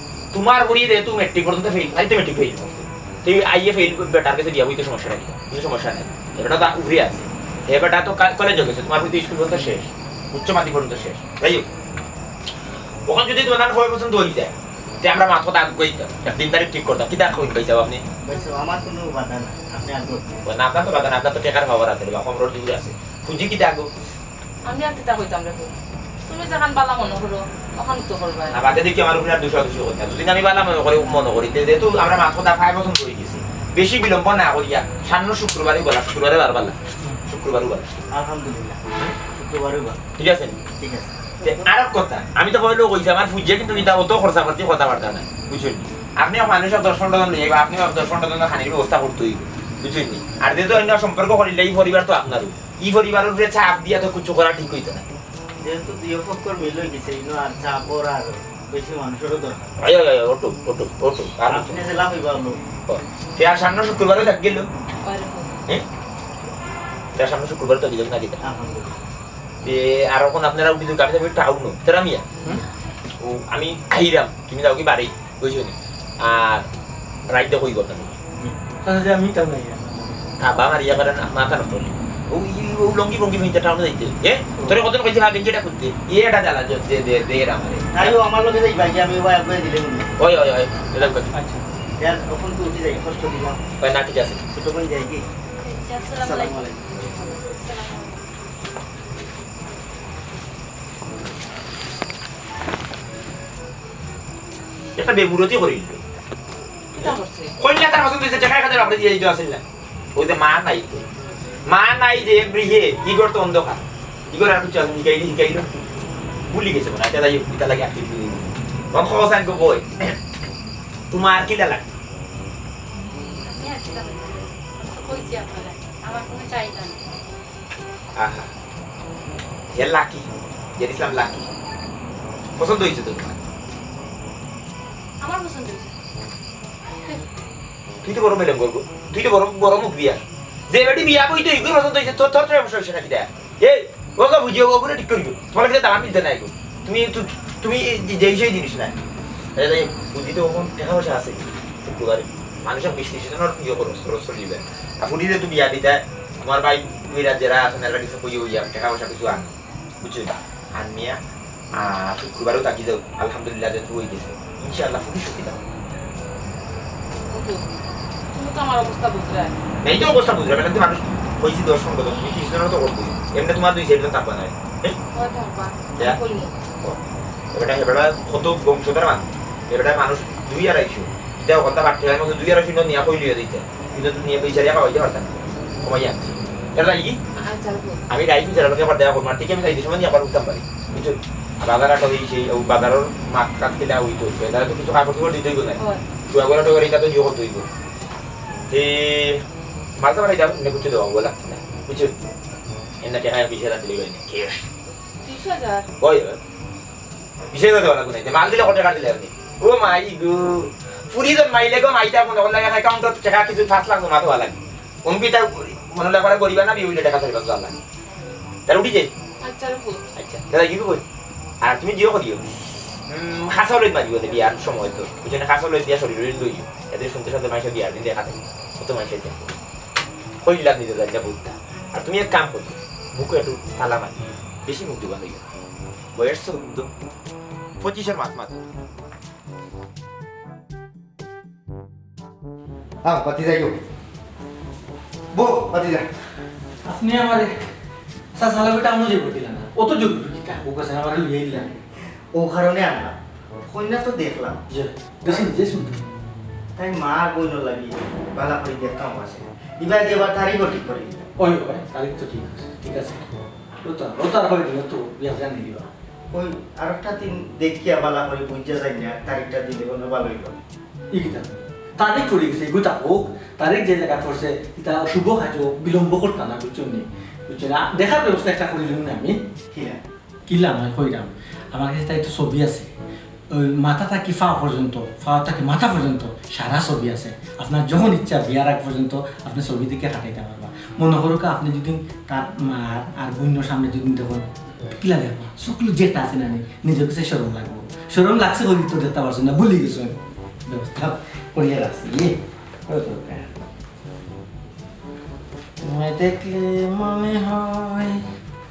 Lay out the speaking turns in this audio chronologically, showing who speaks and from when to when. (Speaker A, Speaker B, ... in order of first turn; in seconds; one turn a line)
Speaker A: 0.3-11.7
Speaker A: 13.1-18.0
Speaker B: 18.2-20.3
Speaker A: 20.4-23.9
Speaker C: 24.7-25.7
Speaker C: 26.3-28.6
Speaker A: 28.5-38.0
Speaker B: 38.1-40.0
Speaker A: 40.2-40.6
Speaker B: 40.8-41.7
Speaker A: 41.4-55.1
Speaker B: 55.6-59.7
Speaker A: 59.8-61.8
Speaker B: 61.5-62.6
Speaker A: 62.9-64.7
Speaker C: 65.0-65.5
Speaker A: 67.2-68.4
Speaker B: 68.4-69.0
Speaker A: 69.6-72.3
Speaker A: 73.2-76.7
Speaker A: 77.3-78.2
Speaker D: 78.5-80.2
Speaker A: 80.4-88.2
Speaker B: 87.9-90.1
Speaker A: 90.2-91.3
Speaker D: 91.3-91.6
Speaker B: 92.0-93.6
Speaker A: 93.8-94.4
Speaker B: 94.5-95.3
Speaker E: 95.6-98.3
Speaker D: 96.2-96.7
Speaker A: 105.0-106.2
Speaker C: 106.9-107.5
Speaker A: 107.0-109.6
Speaker A: 110.2-111.1
Speaker A: 111.7-115.7
Speaker A: 116.5-120.2
Speaker A: 121.1-121.9
Speaker E: 123.0-127.1
Speaker A: 128.2-128.5
Speaker A: 129.7-131.5
Speaker A: 132.6-133.4
Speaker E: 135.2-135.9
Speaker A: 138.0-148.9
Speaker A: 149.6-161.2
Speaker A: 161.7-165.6
Speaker C: 167.3-167.6
Speaker C: 168.3-169.5
Speaker A: 169.8-175.0
Speaker C: 175.1-176.6
Speaker A: 177.5-187.2
Speaker C: 187.4-188.0
Speaker A: 188.1-197.7
Speaker A: 198.7-199.4
Speaker A: 200.0-202.2
Speaker A: 203.0-204.7
Speaker C: 205.2-205.9
Speaker A: 206.0-206.4
Speaker A: 207.5-217.8
Speaker A: 218.7-219.1
Speaker C: 219.4-220.0
Speaker A: 220.2-221.0
Speaker A: 221.6-222.5
Speaker A: 223.1-229.5
Speaker A: 230.4-235.5
Speaker A: 236.2-236.9
Speaker A: 237.8-238.7
Speaker B: 243.1-243.7
Speaker B: 245.3-246.1
Speaker D: 246.8-247.7
Speaker D: 248.3-251.8
Speaker B: 252.3-254.7
Speaker D: 254.7-256.0
Speaker B: 256.8-261.3
Speaker D: 261.4-263.3
Speaker D: 263.8-265.9
Speaker B: 266.3-270.6
Speaker D: 271.1-279.4
Speaker B: 279.7-280.0
Speaker D: 280.5-282.9
Speaker D: 283.5-303.5
Speaker D: 305.8-308.2